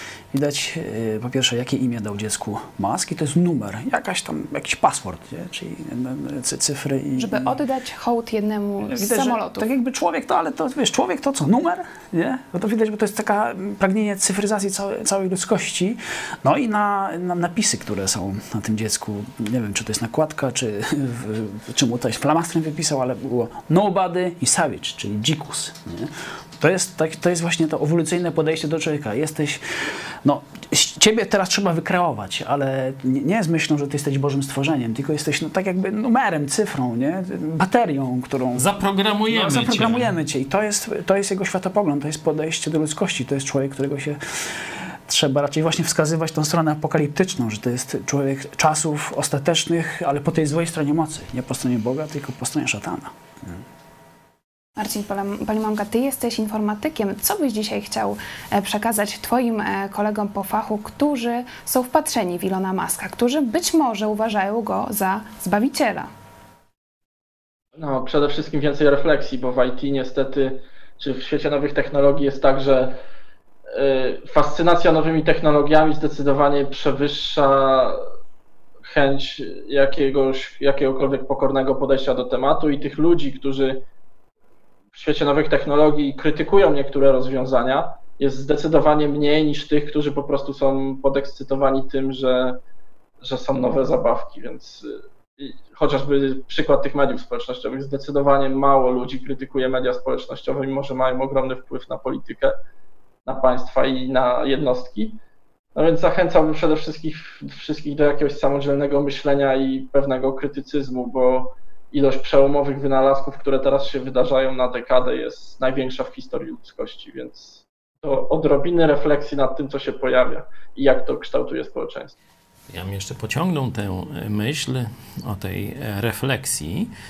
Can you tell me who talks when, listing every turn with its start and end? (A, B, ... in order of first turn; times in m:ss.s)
0:00.3-0:07.6 A
0:07.2-0:09.7 B
0:08.9-0:29.6 A
0:30.2-0:38.7 A
0:38.6-0:40.1 C
0:39.3-0:53.6 A
0:54.8-1:06.1 B
1:07.8-1:13.0 D
1:13.7-1:18.0 D
1:18.8-1:23.8 D
1:24.9-1:32.6 D
1:33.2-1:42.6 D
1:43.3-1:45.2 D
1:45.8-2:02.2 D
2:02.7-2:06.9 C